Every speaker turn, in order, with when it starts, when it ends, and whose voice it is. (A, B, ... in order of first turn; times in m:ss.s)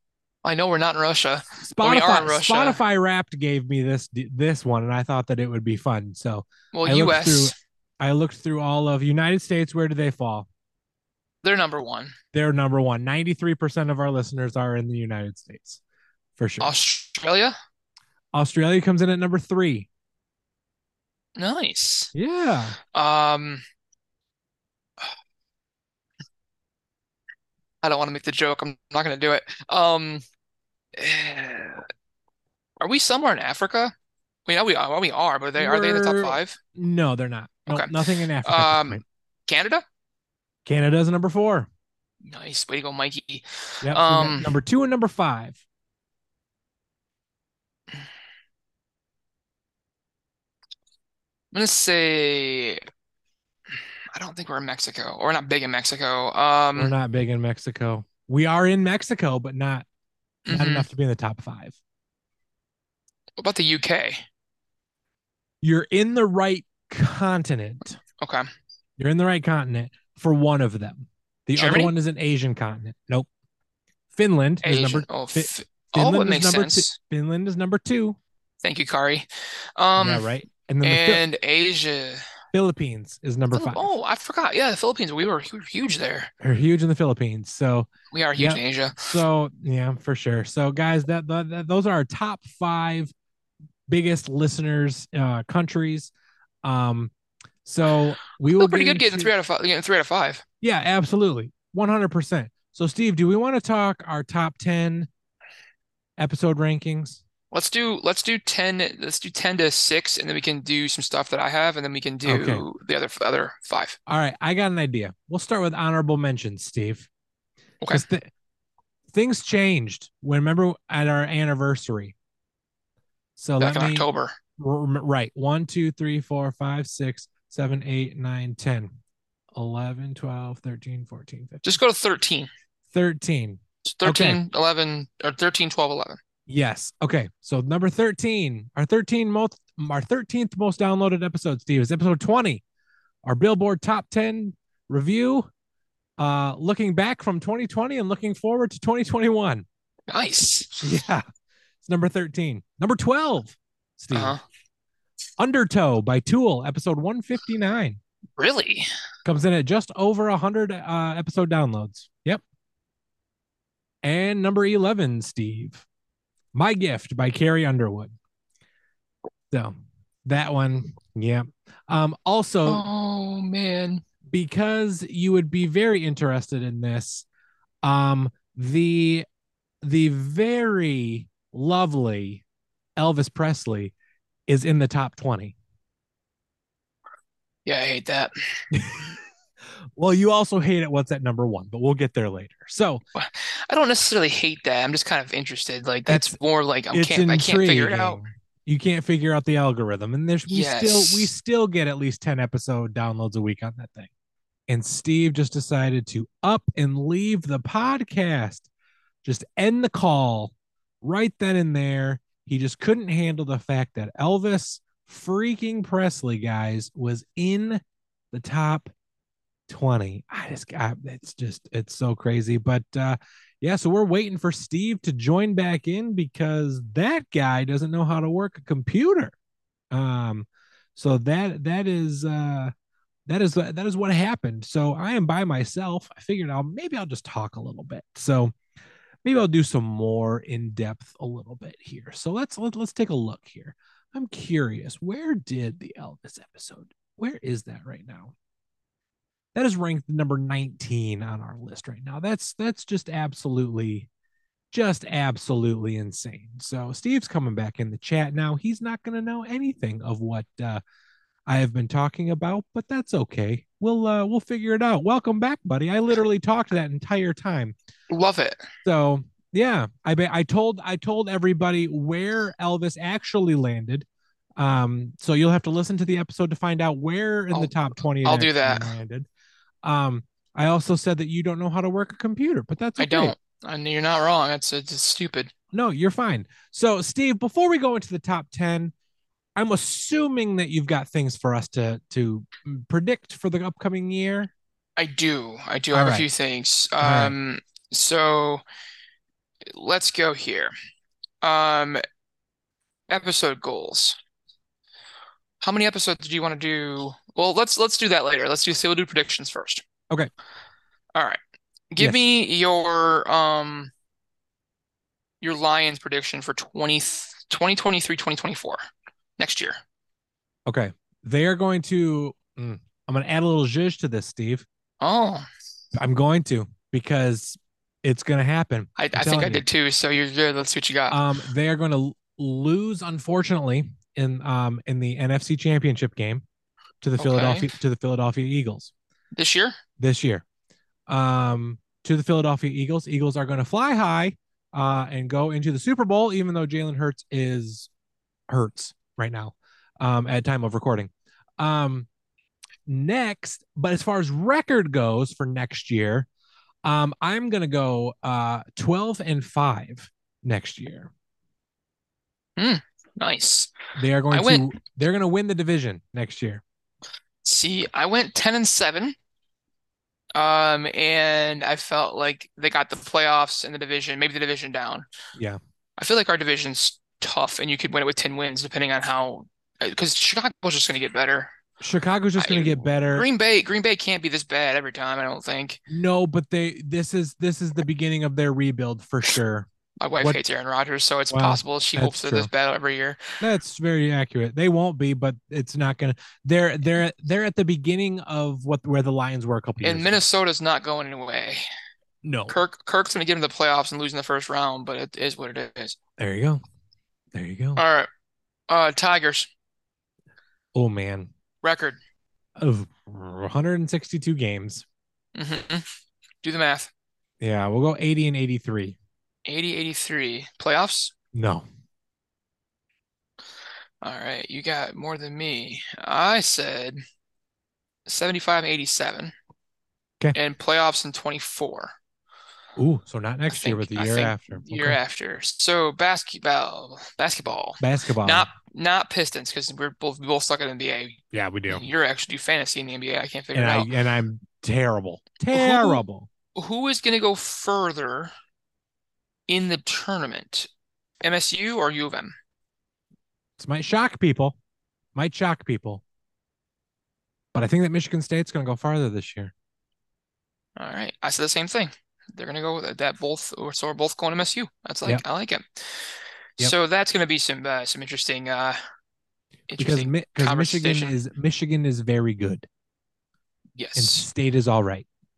0:00.4-0:02.8 A
0:01.6-0:10.5 B
0:06.7-0:07.5 A
0:11.4-0:12.1 A
0:12.3-0:15.8 B
0:16.4-0:16.7 B
0:16.6-0:17.5 A
0:18.3-0:19.9 B
0:21.4-0:22.1 A
0:22.1-0:22.8 B
0:22.9-0:23.6 A
0:27.8-0:30.2 A
0:31.0-0:31.8 A
0:32.8-0:33.9 A
0:34.4-0:36.6 A
0:35.6-0:39.0 B
0:37.7-0:39.8 A
0:40.6-0:41.7 B
0:42.2-0:44.5 A
0:43.8-0:45.6 B
0:51.5-0:52.8 A
0:54.1-0:56.9 A
0:56.7-0:59.8 B
1:00.5-1:00.9 A
1:00.5-1:01.8 B
1:03.4-1:04.2 A
1:05.6-1:08.0 B
1:08.2-1:08.4 A
1:09.0-1:13.3 B
1:11.5-1:11.9 A
1:14.1-1:18.2 B
1:14.6-1:17.0 A
1:18.6-1:20.3 A
1:20.0-1:21.2 B
1:20.8-1:22.2 A
1:22.5-1:23.9 B
1:23.5-1:26.3 A
1:26.4-1:33.1 B
1:28.1-1:29.0 A
1:33.9-1:36.1 B
1:36.6-1:37.1 B
1:37.6-1:39.3 B
1:38.5-1:40.4 A
1:40.6-1:45.1 B
1:46.2-1:47.2 B
1:47.5-1:54.0 A
1:52.2-1:52.7 B
1:54.1-1:57.1 B
1:57.9-1:58.3 B
1:59.1-2:02.1 B
2:03.4-2:04.0 B
2:03.6-2:04.3 A
2:04.6-2:08.9 B
2:09.5-2:11.8 B
2:11.6-2:12.5 A
2:12.9-2:14.4 B
2:13.9-2:16.2 A
2:16.5-2:22.6 B
2:23.2-2:25.5 B
2:26.2-2:29.6 B
2:30.1-2:30.8 A
2:30.8-2:31.2 B
2:31.8-2:34.4 B
2:34.1-2:34.4 A
2:35.4-2:38.0 B
2:38.4-2:38.9 A
2:39.2-2:42.4 B
2:44.0-2:45.8 B
2:46.5-2:48.1 B
2:49.5-2:52.8 B
2:52.6-2:54.0 A
2:54.3-2:57.2 B
2:57.8-2:59.2 B
2:59.8-3:02.4 B
3:03.0-3:03.9 B
3:04.5-3:05.5 B
3:07.6-3:08.6 A
3:08.7-3:09.1 B
3:10.0-3:13.0 B
3:13.1-3:18.2 A
3:16.1-3:16.4 B
3:16.9-3:24.1 B
3:20.5-3:21.3 A
3:24.7-3:28.7 B
3:29.2-3:37.8 B
3:38.3-3:38.9 B
3:39.7-3:49.3 B
3:49.9-3:52.7 B
3:53.3-3:58.5 B
3:59.2-4:08.3 B
4:09.5-4:14.1 B
4:14.7-4:20.8 B
4:21.5-4:27.7 B
4:28.1-4:28.6 A
4:28.8-4:34.0 B
4:34.6-4:39.3 B
4:37.5-4:38.9 A
4:39.8-4:43.3 B
4:43.0-4:45.5 A
4:45.7-4:48.9 B
4:49.6-4:54.5 B
4:55.0-4:58.6 A
4:55.9-4:56.3 B
4:57.0-4:57.3 B
4:59.7-5:00.7 A
5:01.4-5:02.0 A
5:03.1-5:04.2 A
5:05.6-5:09.8 A
5:11.9-5:13.9 A
5:15.4-5:18.8 A
5:19.4-5:19.8 A
5:20.6-5:24.6 B
5:25.0-5:25.4 A
5:25.9-5:29.6 B
5:29.0-5:31.2 A
5:31.1-5:36.4 B
5:37.0-5:38.9 B
5:37.2-5:37.7 A
5:39.3-5:39.7 A
5:40.0-5:40.4 B
5:41.1-5:47.9 B
5:48.5-5:52.1 B
5:52.8-5:56.3 B
5:56.8-6:01.1 B
6:02.6-6:03.7 A
6:04.0-6:06.6 B
6:04.3-6:04.7 A
6:07.4-6:09.1 A
6:10.3-6:15.0 A
6:15.3-6:15.6 B
6:16.0-6:21.5 A
6:21.8-6:23.3 B
6:22.4-6:25.8 A
6:25.9-6:29.7 B
6:30.0-6:33.4 A
6:31.3-6:32.5 B
6:33.4-6:40.2 B
6:39.8-6:41.6 A
6:42.2-6:42.6 B
6:42.5-6:46.0 A
6:46.2-6:46.6 B
6:47.3-6:47.8 B
6:47.8-6:48.1 A
6:48.7-6:49.5 A
6:50.7-6:51.3 B
6:51.6-6:52.0 A
6:52.6-6:54.8 B
6:55.3-6:55.9 A
6:56.4-6:56.9 A
6:57.4-6:59.0 B
6:59.4-7:01.1 A
7:01.3-7:01.6 B
7:04.0-7:07.0 A
7:08.1-7:09.3 A
7:10.3-7:11.9 A
7:12.8-7:15.0 B
7:13.5-7:23.9 A
7:17.8-7:18.5 B
7:21.3-7:21.8 B
7:23.5-7:26.3 B
7:25.5-7:26.0 A
7:26.5-7:28.3 A
7:29.5-7:30.7 A
7:31.2-7:32.3 A
7:33.6-7:34.6 B
7:35.1-7:36.0 B
7:37.5-7:39.5 B
7:40.8-7:48.8 A
7:49.7-7:51.2 A
7:49.8-7:52.7 B
7:53.8-7:54.3 A
7:54.0-7:55.1 B